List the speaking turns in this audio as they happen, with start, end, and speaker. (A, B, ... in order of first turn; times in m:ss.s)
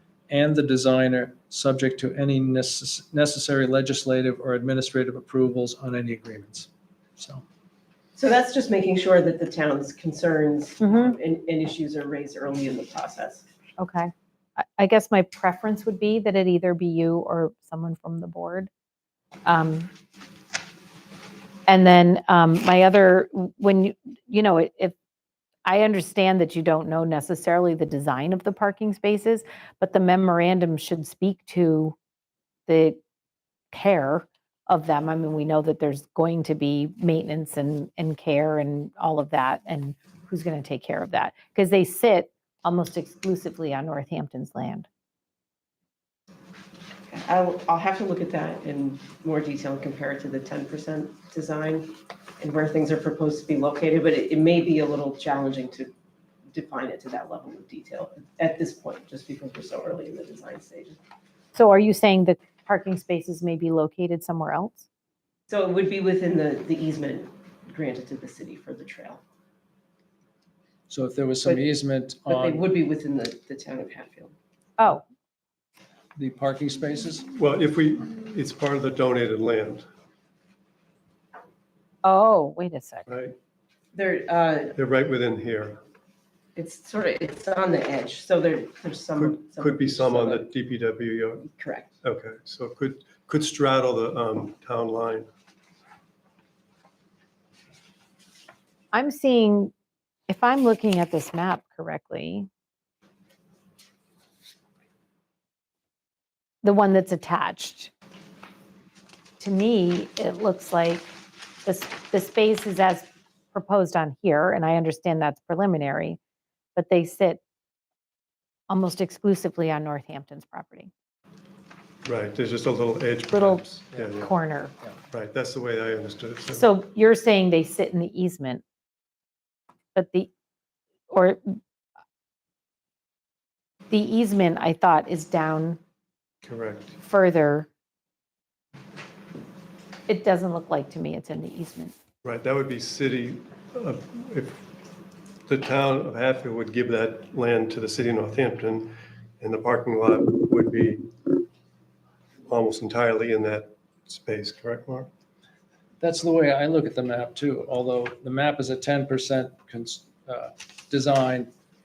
0:00.3-0:07.4 A
0:08.2-0:13.4 B
0:10.8-0:11.1 C
0:13.8-0:18.7 C
0:19.4-0:19.9 C
0:21.7-0:25.0 C
0:25.6-0:32.0 C
0:32.7-0:33.0 C
0:33.7-0:44.9 C
0:47.1-0:55.9 B
0:56.5-1:01.0 B
1:01.6-1:04.8 C
1:05.5-1:09.2 B
1:10.9-1:12.6 A
1:12.3-1:14.3 B
1:14.8-1:15.0 C
1:16.2-1:17.3 A
1:17.3-1:19.9 D
1:22.0-1:23.1 C
1:23.1-1:23.4 D
1:23.9-1:24.8 B
1:24.8-1:25.8 D
1:26.6-1:30.4 B
1:29.2-1:31.5 D
1:31.5-1:31.9 B
1:32.0-1:35.3 D
1:38.9-1:39.7 C
1:40.3-1:42.5 C
1:46.6-1:47.9 C
1:49.4-1:51.1 C
1:51.6-1:56.2 C
1:56.8-1:57.4 C
1:58.7-2:00.9 C
2:02.0-2:04.3 D
2:03.3-2:03.6 C
2:04.2-2:04.7 C
2:05.1-2:06.7 D
2:06.5-2:08.6 C
2:09.9-2:10.3 C
2:11.1-2:11.6 C
2:13.9-2:15.8 C
2:16.4-2:17.0 D
2:17.0-2:17.7 C
2:20.1-2:21.9 C
2:22.2-2:24.7 D
2:25.5-2:31.4 D
2:32.5-2:35.1 D
2:36.0-2:41.5 A